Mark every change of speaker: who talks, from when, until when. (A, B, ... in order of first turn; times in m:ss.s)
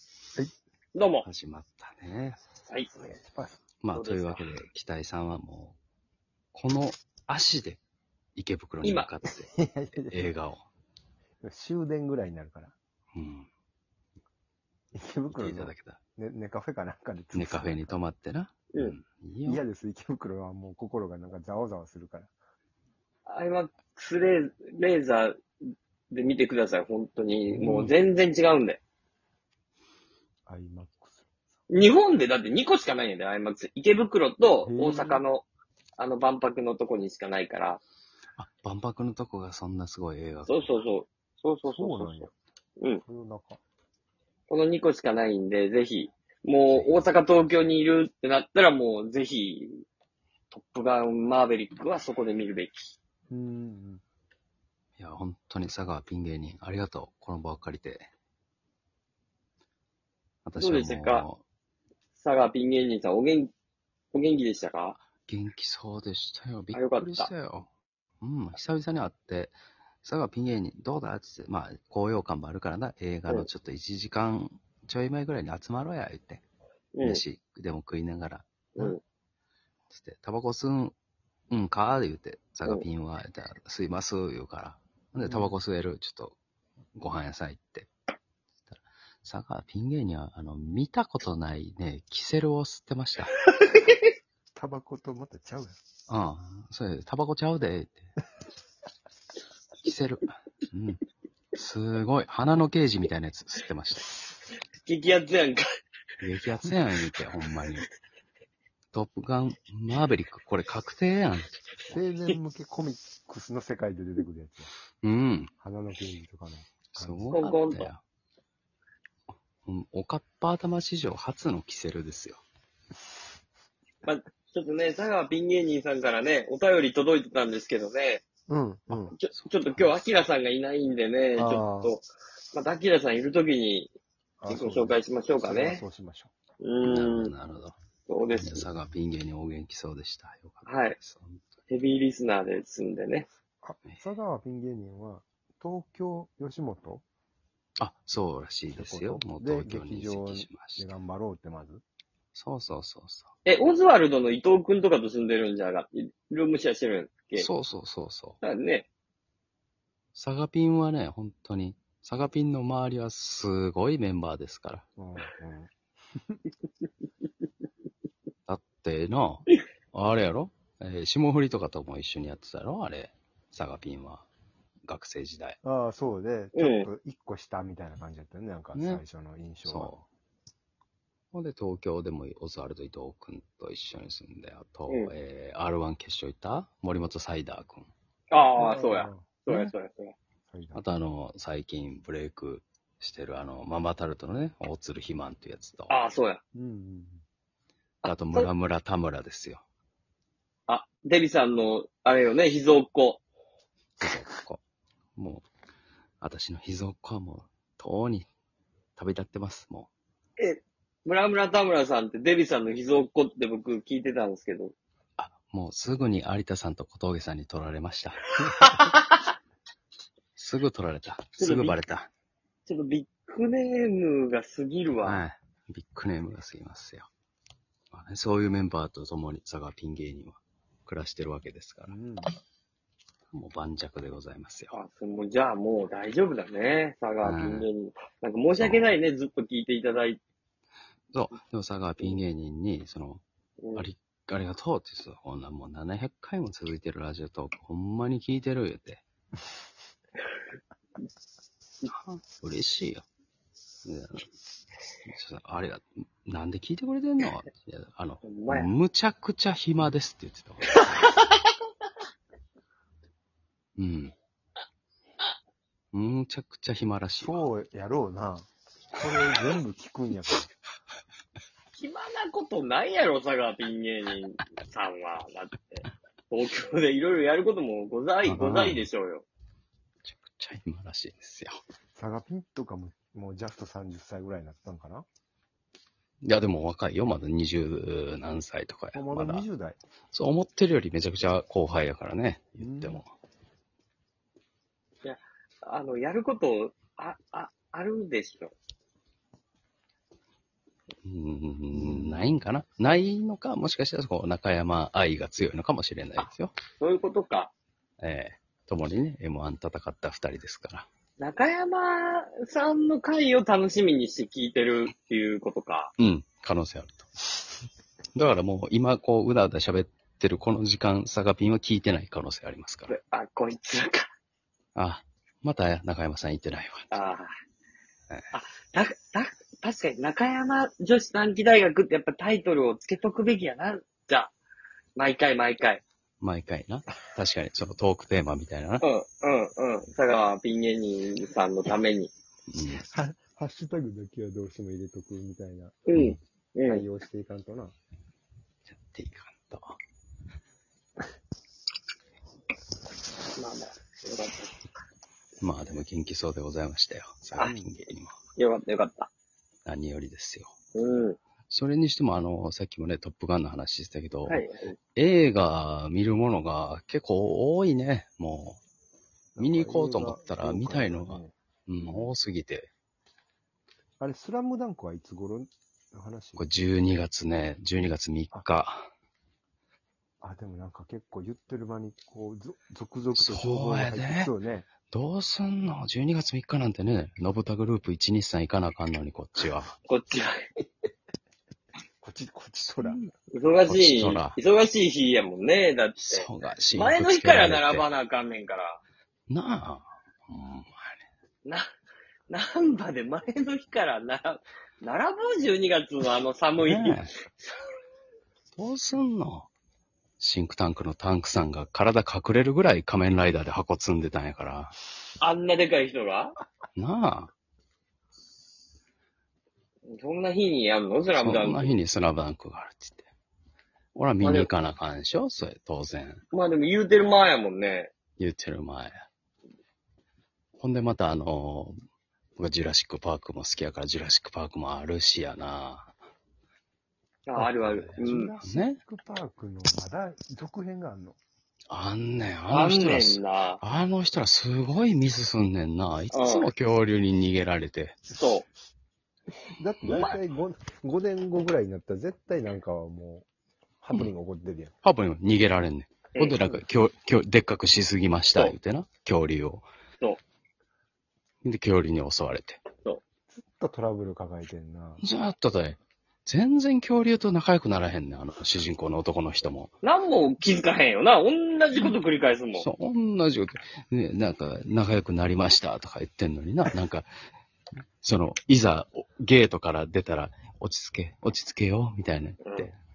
0:00.9-0:01.3 A
0:01.2-0:02.4 B
0:03.0-0:03.5 C
0:03.8-0:05.8 B
0:03.9-0:04.4 A
0:06.5-0:07.8 B
0:08.4-0:10.6 B
0:08.8-0:09.1 A
0:09.5-0:10.3 C
0:11.4-0:12.7 C
0:13.1-0:13.5 B
0:14.9-0:18.0 C
0:15.3-0:16.0 B
0:17.3-0:19.6 B
0:19.4-0:22.3 C
0:23.2-0:25.4 A
0:26.1-0:28.8 A
0:27.5-0:27.9 C
0:30.5-0:31.3 C
0:31.7-0:37.8 A
0:34.6-0:35.2 C
0:38.4-0:40.7 B
0:40.4-0:42.3 A
0:41.7-0:42.3 C
0:43.0-0:43.6 C
0:44.5-0:49.8 A
0:46.7-0:47.1 B
0:50.5-0:52.9 A
0:53.3-0:54.0 C
0:55.0-0:58.1 B
1:00.4-1:01.4 B
1:00.6-1:01.3 A
1:02.1-1:03.5 A
1:04.1-1:05.0 A
1:05.2-1:07.7 B
1:06.7-1:07.3 A
1:08.2-1:16.4 B
1:16.9-1:17.2 A
1:17.0-1:18.9 B
1:19.9-1:20.9 B
1:21.5-1:26.4 B
1:25.2-1:25.6 C
1:27.0-1:27.9 B
1:28.7-1:33.3 B
1:33.6-1:33.9 A
1:34.5-1:35.8 C
1:36.1-1:38.1 B
1:39.8-1:41.0 B
1:41.5-1:44.1 B
1:44.8-1:45.6 A
1:46.2-1:47.9 B
1:48.9-1:51.5 B
1:51.9-1:54.7 C
1:55.0-1:55.5 B
1:55.6-1:57.4 C
1:56.9-1:58.0 B
1:57.3-1:57.9 A
1:59.6-2:02.4 B
2:04.0-2:08.2 A
2:08.5-2:09.2 C
2:09.1-2:13.9 A
2:09.3-2:09.9 B
2:11.4-2:11.9 C
2:14.4-2:16.3 C
2:14.5-2:15.8 A
2:16.6-2:17.3 A
2:16.8-2:17.7 B
2:18.1-2:18.7 A
2:18.3-2:21.5 B
2:20.6-2:21.0 A
2:21.7-2:23.3 A
2:23.6-2:27.0 C
2:27.8-2:30.9 B
2:28.7-2:31.8 C
2:32.3-2:33.3 B
2:33.4-2:37.5 A
2:37.4-2:38.4 B
2:38.4-2:38.9 A
2:40.1-2:44.8 B
2:45.0-2:45.7 C
2:48.5-2:54.3 B
2:54.8-2:55.6 B
2:55.6-3:00.0 C
2:56.5-2:56.9 A
2:58.7-2:59.0 B
2:59.6-2:59.9 B
3:01.3-3:07.9 B
3:08.3-3:10.1 A
3:08.6-3:09.4 C
3:10.5-3:10.8 C
3:10.7-3:16.0 B
3:15.9-3:16.4 A
3:16.5-3:17.2 C
3:18.0-3:18.5 A
3:18.0-3:19.6 B
3:20.7-3:23.2 A
3:24.0-3:24.6 B
3:25.2-3:25.5 B
3:26.2-3:28.3 B
3:29.0-3:29.9 B
3:30.4-3:34.7 A
3:35.2-3:38.2 B
3:38.4-3:39.2 A
3:40.4-3:42.1 B
3:41.4-3:41.8 A
3:42.6-3:45.2 A
3:45.0-3:47.1 B
3:47.9-3:52.0 B
3:51.9-3:52.3 C
3:53.3-3:54.8 B
3:54.7-4:00.2 A
3:57.2-3:57.7 B
3:58.6-3:58.9 B
4:01.1-4:03.2 B
4:03.6-4:03.8 A
4:03.7-4:09.0 B
4:11.9-4:13.0 B
4:13.8-4:14.3 B
4:15.1-4:20.8 B
4:18.2-4:18.7 A
4:20.7-4:21.3 A
4:23.8-4:24.1 B
4:25.9-4:27.5 B
4:27.2-4:30.5 C
4:31.7-4:39.2 A
4:38.2-4:38.9 B
4:40.0-4:41.6 B
4:42.0-4:45.0 C
4:46.2-4:49.4 B
4:48.9-4:49.8 C
4:50.1-4:53.1 B
4:52.6-4:53.0 C
4:55.0-4:58.5 A
5:01.0-5:06.5 B
5:01.7-5:02.2 C
5:06.8-5:07.5 A
5:08.0-5:10.8 B
5:11.2-5:15.9 A
5:16.0-5:17.1 B
5:18.1-5:23.0 B
5:22.9-5:24.1 A
5:24.7-5:26.9 B
5:26.9-5:27.3 A
5:28.3-5:34.3 A
5:35.0-5:35.8 A
5:36.2-5:38.8 B
5:38.8-5:42.1 A
5:42.5-5:42.8 B
5:42.7-5:46.1 C
5:45.9-5:46.8 A
5:46.6-5:47.7 C
5:48.7-5:49.8 B
5:53.4-5:54.6 A
5:55.4-5:58.1 B
5:57.4-5:57.7 C
5:58.4-5:59.1 A
5:59.6-6:00.5 B
6:00.7-6:01.2 A
6:01.5-6:04.4 B
6:04.3-6:04.8 A
6:05.0-6:08.6 B
6:09.3-6:12.1 C
6:09.4-6:12.7 B
6:14.0-6:16.4 C
6:16.4-6:18.8 B
6:20.2-6:24.7 C
6:23.1-6:24.3 B
6:24.9-6:29.7 B
6:29.9-6:30.4 A
6:32.0-6:33.0 C
6:32.7-6:33.1 B
6:33.3-6:38.8 A
6:33.7-6:34.4 B
6:36.0-6:37.8 B
6:39.3-6:41.0 B
6:42.3-6:47.0 A
6:46.6-6:47.1 B
6:48.6-6:49.5 B
6:50.2-6:54.7 B
6:55.2-6:56.4 A
6:56.8-6:57.3 B
6:59.9-7:01.8 A
7:01.2-7:03.1 B
7:03.9-7:06.2 B
7:04.2-7:04.5 A
7:06.3-7:07.9 A
7:08.2-7:08.9 B
7:10.6-7:11.7 B
7:12.4-7:15.9 B
7:17.3-7:18.3 A
7:17.4-7:18.8 B
7:18.0-7:21.2 C
7:21.7-7:28.0 B
7:22.5-7:23.6 A
7:26.1-7:26.5 A
7:28.1-7:28.5 A
7:29.6-7:33.3 C
7:29.8-7:30.1 B
7:29.9-7:30.2 A
7:33.8-7:34.7 C
7:34.8-7:39.6 B
7:36.1-7:36.6 A
7:41.4-7:42.6 B
7:43.4-7:45.0 C
7:45.0-7:49.7 B
7:49.8-7:52.7 A
7:52.5-7:57.1 B
7:58.0-8:02.8 B
8:02.4-8:02.7 A